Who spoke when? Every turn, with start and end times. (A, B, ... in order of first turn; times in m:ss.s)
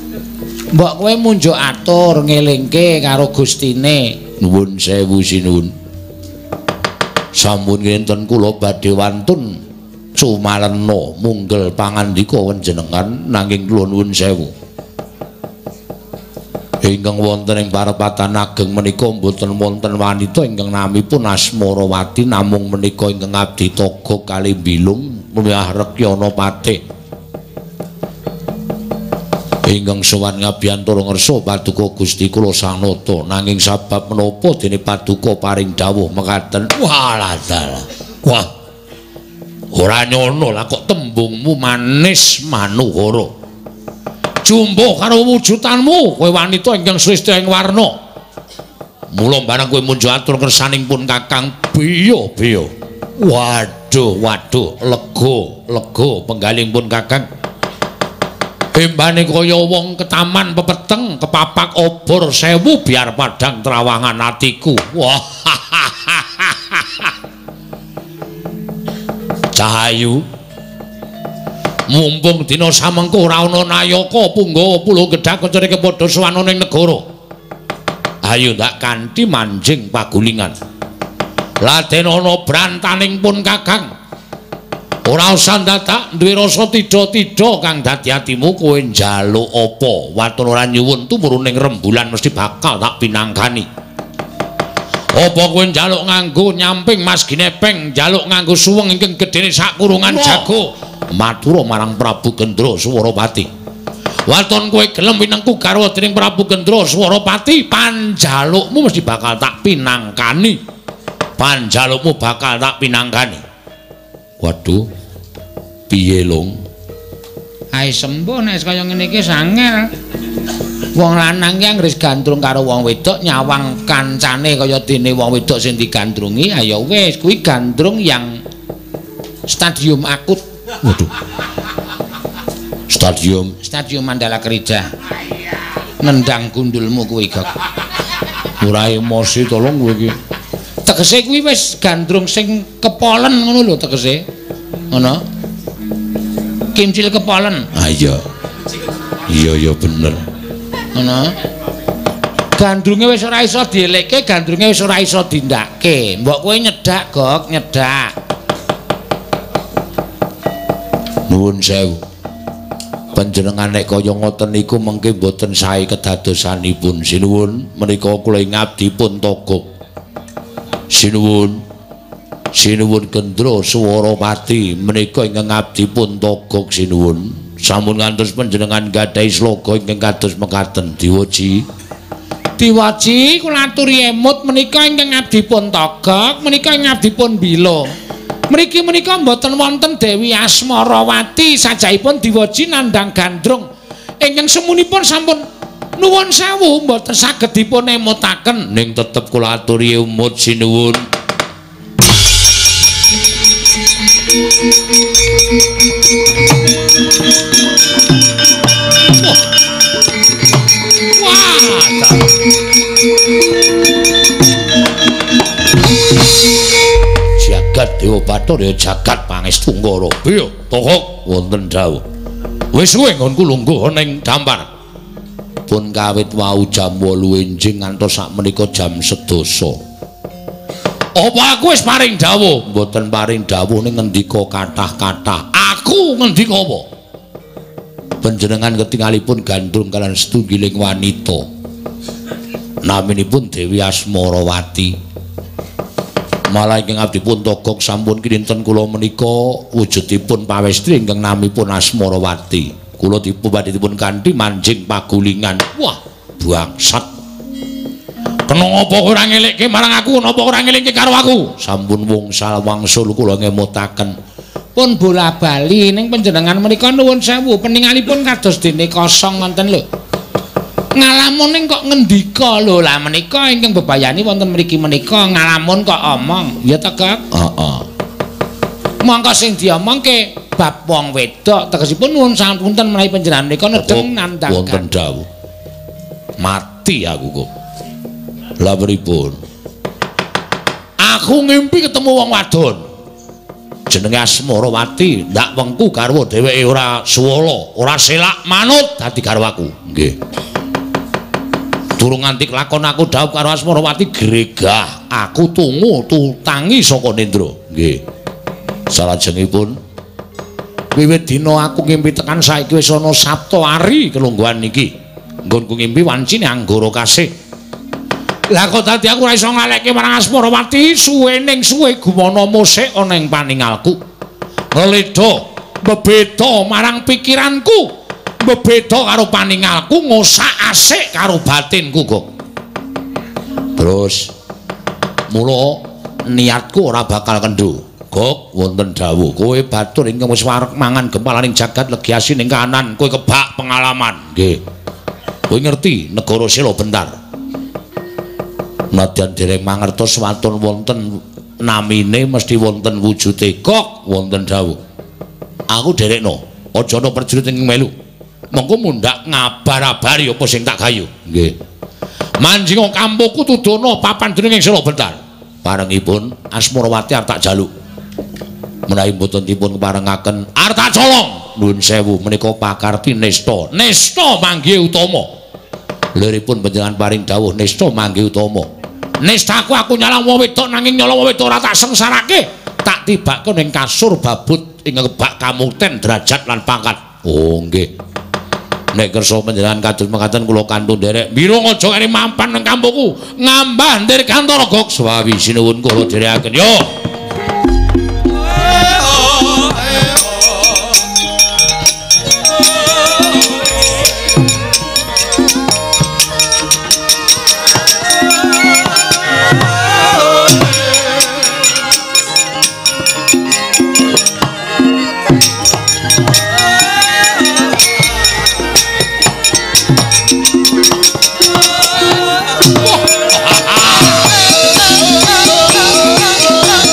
0:00.7-0:04.2 A
0:04.4-0:05.7 B
0:07.3-0:09.6 B
0:10.2-0:14.5 B
0:16.8-0:26.8 B
0:29.6-0:38.5 B
0:39.7-0:43.3 B
0:44.4-0:47.9 B
0:49.1-0:57.3 B
0:58.7-1:07.1 B
1:09.5-1:10.2 B
1:11.9-1:17.0 B
1:18.2-1:20.5 B
1:21.6-1:23.9 B
1:25.0-1:33.7 B
1:35.1-1:43.5 B
1:40.0-1:40.5 A
1:44.3-1:50.6 B
1:51.4-1:53.4 B
1:54.4-1:54.8 B
1:55.9-1:56.6 B
1:57.7-1:59.9 A
2:00.9-2:08.4 A
2:09.5-2:10.4 A
2:10.8-2:11.1 B
2:12.9-2:13.6 B
2:13.6-2:14.9 A
2:16.0-2:17.5 A
2:18.6-2:20.2 B
2:20.8-2:24.2 A
2:24.9-2:25.2 A
2:26.7-2:27.7 A
2:27.7-2:28.2 B
2:29.3-2:30.2 B
2:30.9-2:31.3 A
2:32.6-2:38.1 A
2:41.3-2:42.0 B
2:43.1-2:49.7 B
2:50.9-2:51.6 B
2:52.5-3:01.6 B
3:02.6-3:07.9 A
3:08.5-3:13.6 A
3:14.2-3:15.4 A
3:16.0-3:18.6 A
3:18.6-3:21.0 B
3:31.2-3:32.3 B
3:37.4-3:42.0 B
3:42.7-3:44.7 B
3:45.7-3:49.8 B
3:51.1-3:56.9 B
3:58.2-4:01.5 B
4:02.8-4:05.0 B
4:06.5-4:17.1 B
4:18.5-4:24.1 B
4:24.8-4:29.8 A
4:31.0-4:37.2 A
4:37.3-4:37.8 B
4:39.0-4:44.8 A
4:43.7-4:45.2 B
4:46.4-4:47.5 B
4:48.6-4:49.4 B
4:51.0-4:52.8 B
4:53.9-5:00.2 B
5:02.0-5:08.0 B
5:08.9-5:09.8 B
5:11.0-5:13.6 A
5:11.3-5:14.9 B
5:15.4-5:17.3 B
5:18.5-5:23.9 A
5:24.7-5:26.9 B
5:26.1-5:27.8 A
5:28.5-5:28.8 B
5:28.5-5:32.0 A
5:30.7-5:32.2 B
5:33.8-5:34.3 B
5:35.3-5:44.6 B
5:45.5-5:47.2 B
5:48.9-5:54.8 B
5:55.7-5:57.9 B
5:58.5-6:01.5 B
6:02.4-6:07.7 B
6:08.9-6:15.3 B
6:16.1-6:18.7 B
6:19.2-6:27.9 B
6:28.9-6:36.9 B
7:03.1-7:04.2 B